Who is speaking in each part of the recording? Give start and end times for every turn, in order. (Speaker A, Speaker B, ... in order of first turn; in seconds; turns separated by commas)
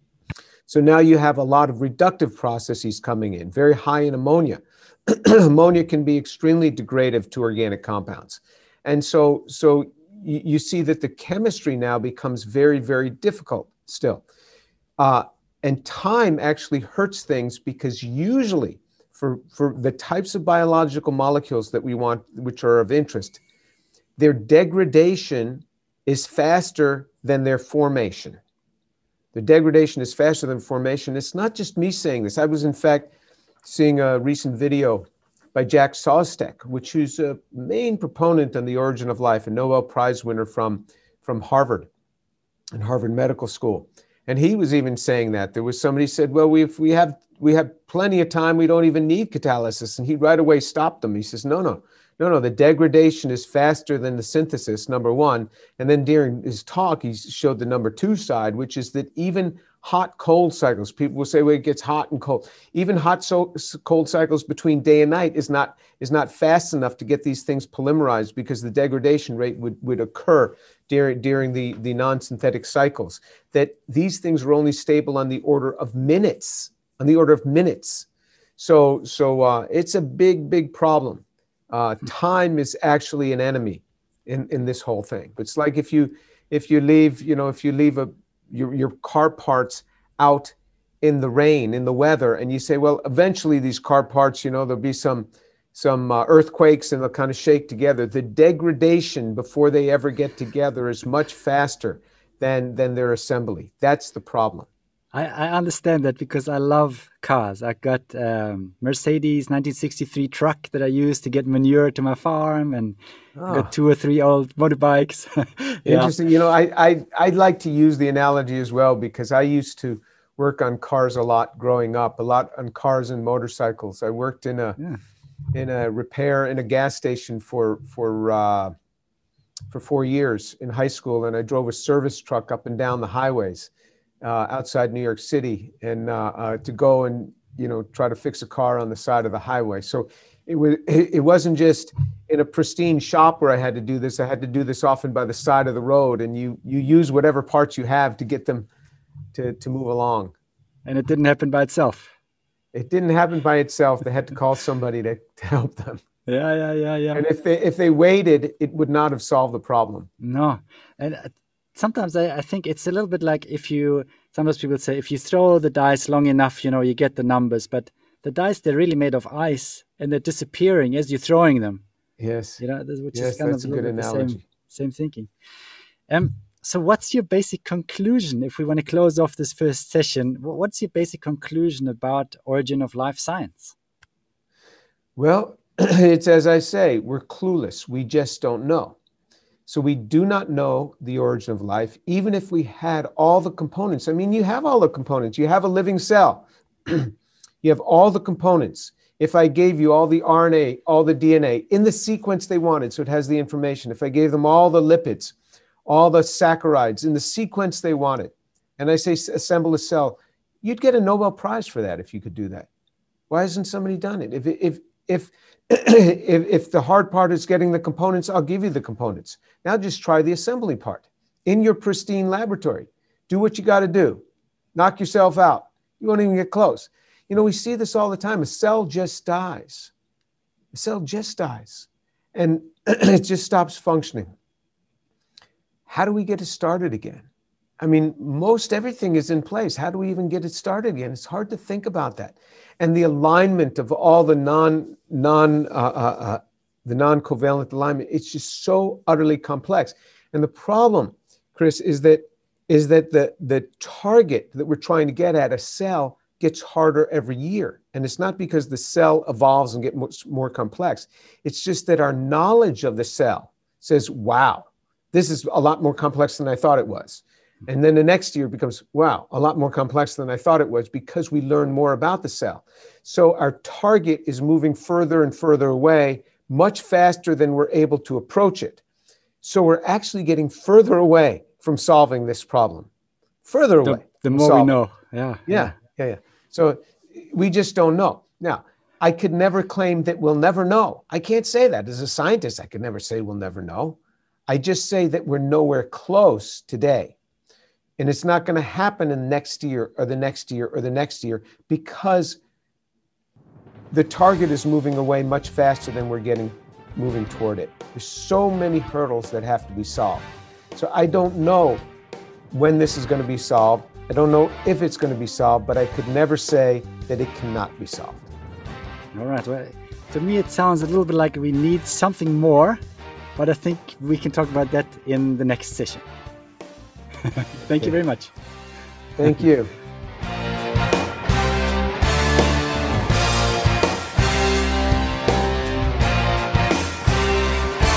Speaker A: 0.7-14.2, Speaker A: 15.0-23.4, Speaker A: 24.2-28.4, Speaker A: 29.3-33.1, Speaker A: 33.6-41.9, Speaker A: 42.7-104.7, Speaker B: 105.1-113.0, Speaker A: 113.3-113.7, Speaker B: 113.5-116.1, Speaker A: 115.8-124.8, Speaker A: 125.5-128.7, Speaker A: 129.7-133.7, Speaker A: 134.2-148.7, Speaker A: 149.3-150.3, Speaker B: 150.8-152.1, Speaker A: 152.7-156.0, Speaker B: 156.3-157.2, Speaker A: 157.1-160.1, Speaker B: 160.2-171.8, Speaker A: 172.2-172.6, Speaker B: 172.6-175.3, Speaker A: 173.1-174.4, Speaker B: 176.1-183.7, Speaker A: 185.2-189.0, Speaker A: 189.7-212.7, Speaker A: 213.3-224.2, Speaker A: 224.7-229.9, Speaker A: 230.7-234.3, Speaker A: 235.9-237.3, Speaker A: 237.8-278.8, Speaker A: 279.4-282.9, Speaker A: 283.4-284.8, Speaker B: 283.8-285.7, Speaker A: 285.5-294.0, Speaker A: 294.5-297.1, Speaker A: 298.0-302.4, Speaker A: 303.9-311.9, Speaker A: 312.5-318.3, Speaker B: 319.1-322.8, Speaker B: 323.4-326.0, Speaker B: 327.2-328.3, Speaker A: 329.2-329.7